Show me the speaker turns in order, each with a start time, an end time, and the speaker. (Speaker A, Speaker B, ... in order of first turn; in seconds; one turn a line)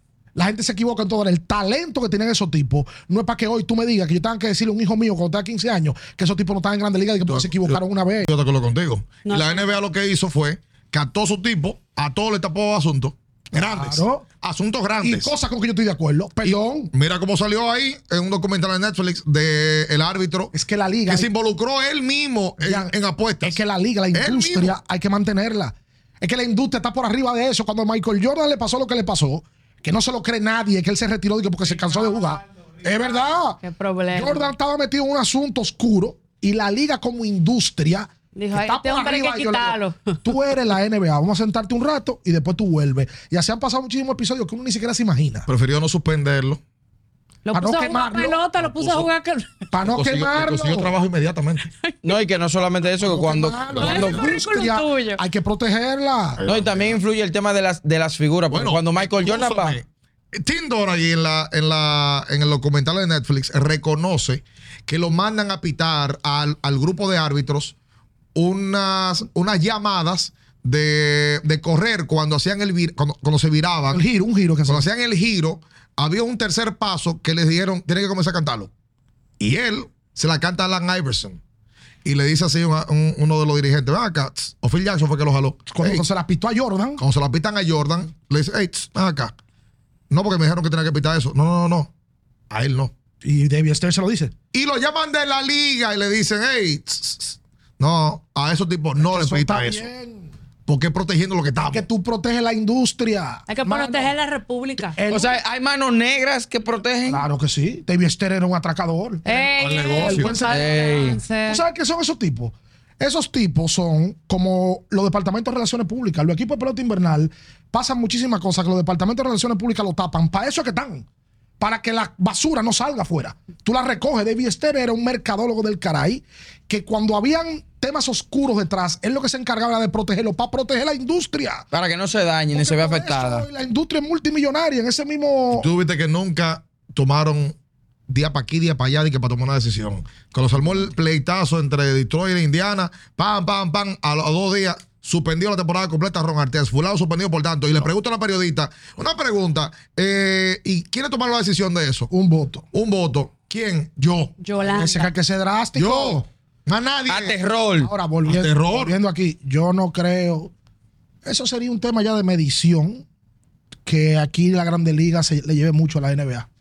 Speaker A: 0.3-8.3
Speaker B: 7.2-15.3
Speaker C: 9.2-9.7
Speaker A: 13.5-14.2
Speaker A: 15.0-16.9
Speaker B: 16.4-20.5
Speaker A: 20.5-21.3
Speaker B: 21.1-23.6
Speaker A: 22.6-33.6
Speaker B: 24.1-24.8
Speaker C: 33.6-34.5
Speaker A: 34.1-45.5
Speaker C: 38.3-40.2
Speaker B: 45.5-46.6
Speaker C: 47.5-49.7
Speaker A: 47.5-48.4
Speaker B: 48.6-49.1
Speaker A: 49.7-50.9
Speaker B: 49.8-51.7
Speaker D: 52.0-54.4
Speaker A: 53.0-56.4
Speaker B: 53.8-54.0
Speaker C: 53.8-55.2
Speaker B: 56.4-57.0
Speaker D: 56.4-59.8
Speaker B: 58.5-67.7
Speaker B: 68.3-74.0
Speaker A: 73.9-74.8
Speaker B: 74.7-78.7
Speaker B: 79.4-81.4
Speaker B: 82.0-86.1
Speaker A: 85.7-87.0
Speaker B: 87.0-89.3
Speaker B: 90.1-91.9
Speaker B: 92.5-92.9
Speaker A: 93.2-94.3
Speaker B: 94.5-99.9
Speaker A: 99.0-100.3
Speaker B: 100.7-101.9
Speaker A: 101.7-104.1
Speaker C: 103.5-105.0
Speaker A: 104.9-105.4
Speaker D: 105.1-107.2
Speaker A: 107.1-109.4
Speaker C: 109.2-111.6
Speaker B: 109.6-110.4
Speaker A: 110.0-110.7
Speaker D: 110.5-111.2
Speaker A: 111.5-121.0
Speaker A: 121.6-131.7
Speaker D: 131.7-133.5
Speaker A: 132.5-135.7
Speaker B: 135.5-137.5
Speaker B: 138.1-152.1
Speaker A: 152.1-152.7
Speaker B: 152.7-154.8
Speaker C: 154.4-155.1
Speaker A: 154.6-156.2
Speaker B: 155.7-157.4
Speaker D: 157.1-157.9
Speaker A: 157.8-160.5
Speaker B: 158.2-158.9
Speaker A: 161.2-163.0
Speaker A: 163.8-166.5